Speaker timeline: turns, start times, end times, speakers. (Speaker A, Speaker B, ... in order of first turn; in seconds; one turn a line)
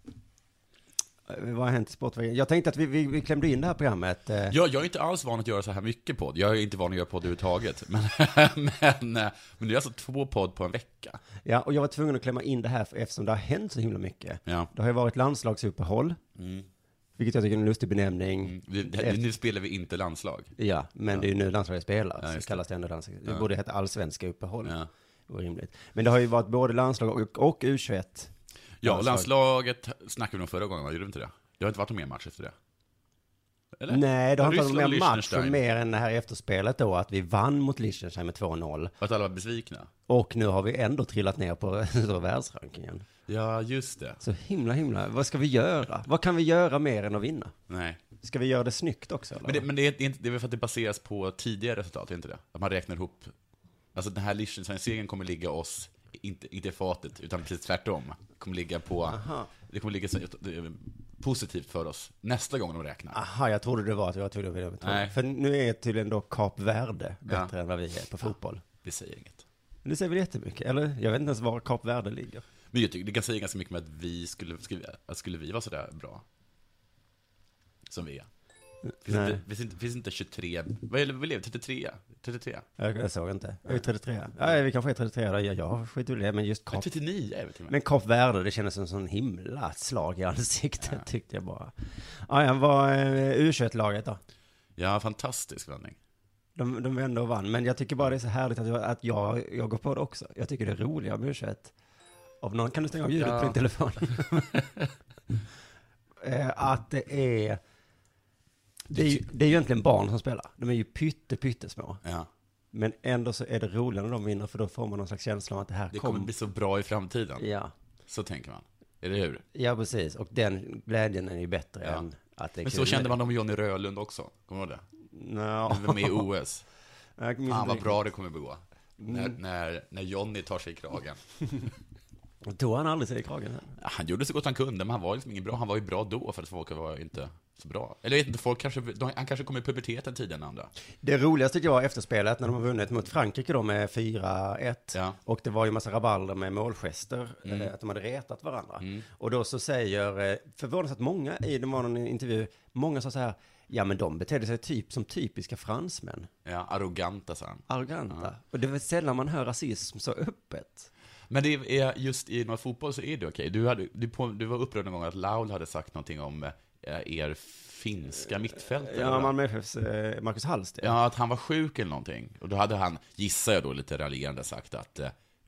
Speaker A: 1.3-4.5
Speaker B: 4.5-11.2
Speaker A: 11.4-16.2
Speaker B: 16.4-16.7
Speaker A: 17.2-19.2
Speaker B: 18.4-20.5
Speaker A: 20.6-24.7
Speaker B: 22.2-22.6
Speaker A: 25.3-28.3
Speaker B: 28.8-32.5
Speaker A: 28.8-29.3
Speaker B: 33.8-35.6
Speaker A: 33.9-38.9
Speaker B: 39.0-39.9
Speaker A: 40.1-43.0
Speaker B: 43.3-44.2
Speaker A: 44.2-47.5
Speaker B: 47.7-48.0
Speaker A: 48.2-49.6
Speaker B: 49.4-53.3
Speaker B: 54.0-63.2
Speaker A: 59.1-59.5
Speaker A: 63.1-68.6
Speaker B: 64.8-65.2
Speaker B: 68.8-69.5
Speaker A: 69.8-72.4
Speaker B: 72.7-76.2
Speaker B: 77.9-78.3
Speaker A: 79.0-79.4
Speaker B: 79.0-82.7
Speaker A: 82.8-86.8
Speaker B: 86.7-87.7
Speaker A: 87.7-91.7
Speaker A: 92.3-94.2
Speaker B: 94.8-96.0
Speaker A: 96.6-101.7
Speaker A: 102.4-104.5
Speaker B: 103.2-103.6
Speaker B: 104.2-104.8
Speaker A: 106.2-107.6
Speaker A: 108.9-112.0
Speaker A: 112.7-116.3
Speaker B: 115.9-117.5
Speaker A: 117.4-117.7
Speaker B: 118.1-119.5
Speaker A: 119.5-123.1
Speaker B: 122.6-124.8
Speaker A: 125.1-126.2
Speaker B: 125.7-126.7
Speaker A: 127.2-128.0
Speaker B: 127.5-131.2
Speaker A: 129.0-129.4
Speaker A: 132.4-133.7
Speaker B: 133.8-140.7
Speaker A: 141.0-156.3
Speaker B: 147.5-147.7
Speaker B: 156.4-158.3
Speaker A: 157.7-160.9
Speaker B: 161.3-169.3
Speaker A: 168.8-170.9
Speaker B: 170.8-175.1